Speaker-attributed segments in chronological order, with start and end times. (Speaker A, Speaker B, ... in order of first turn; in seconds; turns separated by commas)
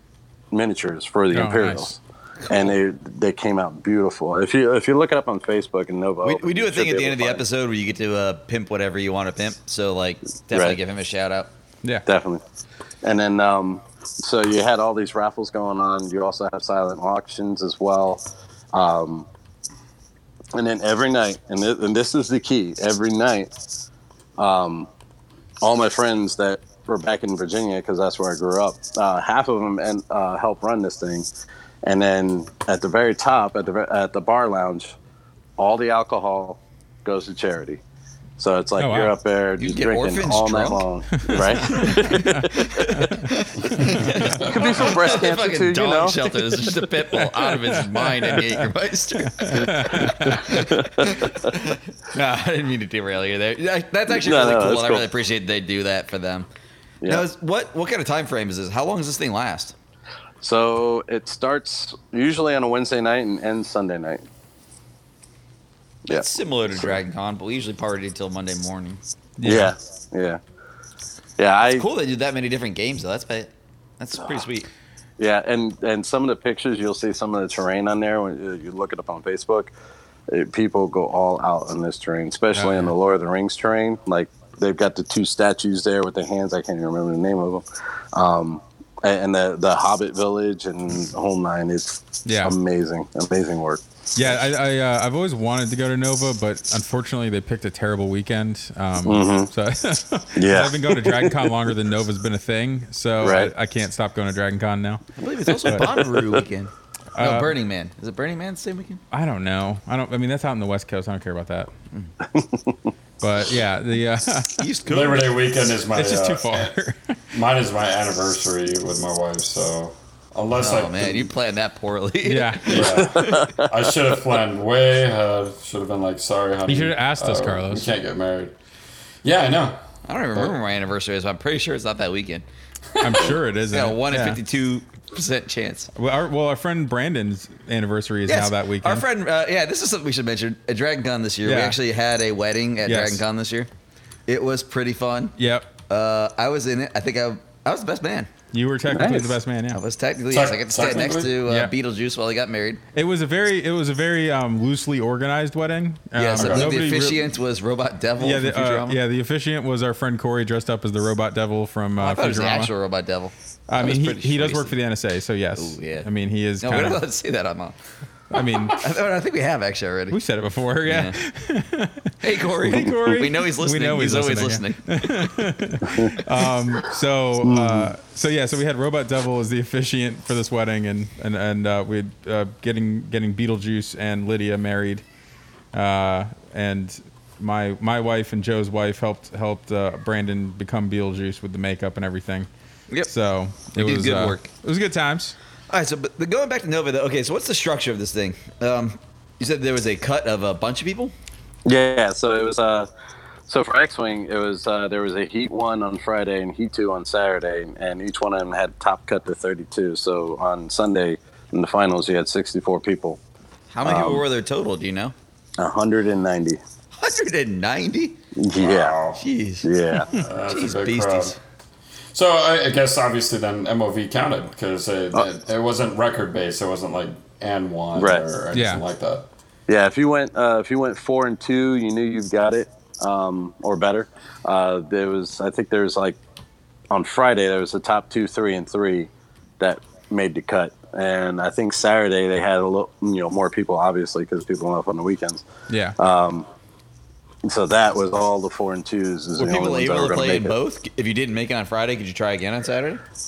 Speaker A: 0.5-7.4, Speaker B: 1.3-1.9, Speaker C: 6.2-11.5, Speaker A: 10.5-10.8, Speaker A: 12.1-12.4, Speaker A: 13.0-19.3, Speaker A: 20.5-23.5, Speaker A: 24.4-24.9, Speaker A: 25.6-31.3, Speaker A: 31.8-35.0, Speaker A: 35.6-37.8, Speaker A: 38.4-42.9, Speaker B: 38.8-39.1, Speaker C: 39.6-56.5, Speaker B: 41.2-43.3, Speaker B: 44.0-44.3, Speaker A: 44.3-46.8, Speaker B: 47.1-48.7, Speaker B: 49.3-50.5, Speaker A: 49.5-51.5, Speaker A: 54.1-55.0, Speaker C: 57.0-59.8, Speaker A: 60.4-64.2, Speaker A: 66.1-67.0, Speaker C: 66.1-69.0, Speaker B: 69.4-69.7, Speaker A: 69.4-70.4, Speaker A: 71.4-71.8, Speaker C: 71.8-74.7, Speaker A: 75.2-79.7, Speaker A: 80.3-94.4, Speaker B: 82.5-82.9, Speaker B: 92.3-92.5, Speaker B: 94.2-105.0, Speaker A: 99.0-99.5, Speaker A: 100.4-101.5, Speaker A: 103.2-103.5, Speaker C: 105.2-109.0, Speaker A: 105.8-106.2, Speaker B: 107.2-107.5, Speaker B: 109.1-111.7, Speaker A: 112.3-112.8, Speaker B: 113.2-114.6, Speaker C: 114.6-115.5, Speaker D: 114.9-116.7, Speaker B: 115.9-117.2, Speaker D: 117.3-121.3, Speaker C: 120.6-123.6, Speaker B: 122.2-122.9, Speaker D: 122.7-128.6, Speaker A: 123.2-123.7, Speaker B: 126.7-127.9, Speaker D: 129.2-129.8, Speaker C: 130.1-132.4, Speaker D: 133.0-133.4, Speaker B: 133.0-134.4, Speaker C: 133.7-135.9, Speaker B: 135.9-139.1, Speaker C: 138.3-143.7, Speaker B: 141.4-141.8, Speaker B: 142.8-143.2, Speaker C: 144.3-145.3, Speaker B: 145.4-145.7, Speaker C: 145.9-148.3, Speaker B: 148.5-149.8, Speaker A: 148.9-149.3, Speaker C: 149.7-152.8, Speaker D: 150.3-151.4, Speaker B: 151.5-151.7, Speaker B: 152.9-157.2, Speaker C: 156.2-159.0, Speaker D: 156.3-156.7, Speaker B: 158.2-162.7, Speaker C: 162.0-164.8, Speaker B: 163.7-167.0, Speaker C: 165.6-166.1, Speaker C: 166.6-167.8, Speaker B: 168.3-168.8, Speaker C: 168.6-170.2, Speaker B: 170.1-185.0, Speaker C: 170.9-171.2, Speaker C: 172.2-175.3, Speaker A: 177.4-177.9, Speaker B: 185.7-192.5, Speaker B: 193.1-195.3, Speaker C: 193.7-194.5, Speaker C: 195.7-201.1, Speaker A: 201.7-202.9, Speaker A: 203.5-213.2, Speaker C: 213.7-215.1, Speaker A: 213.8-214.2, Speaker A: 215.6-216.6, Speaker C: 217.0-218.2, Speaker A: 218.4-219.0, Speaker D: 218.6-219.2, Speaker C: 219.2-219.7, Speaker A: 219.6-220.1, Speaker B: 220.0-220.3, Speaker D: 220.1-221.4, Speaker C: 220.5-221.4, Speaker D: 222.1-229.3, Speaker A: 228.0-228.2, Speaker B: 228.5-228.8, Speaker A: 229.7-236.2, Speaker A: 236.9-245.4, Speaker B: 245.7-246.0, Speaker A: 246.0-246.5, Speaker A: 247.4-250.5, Speaker C: 249.4-253.0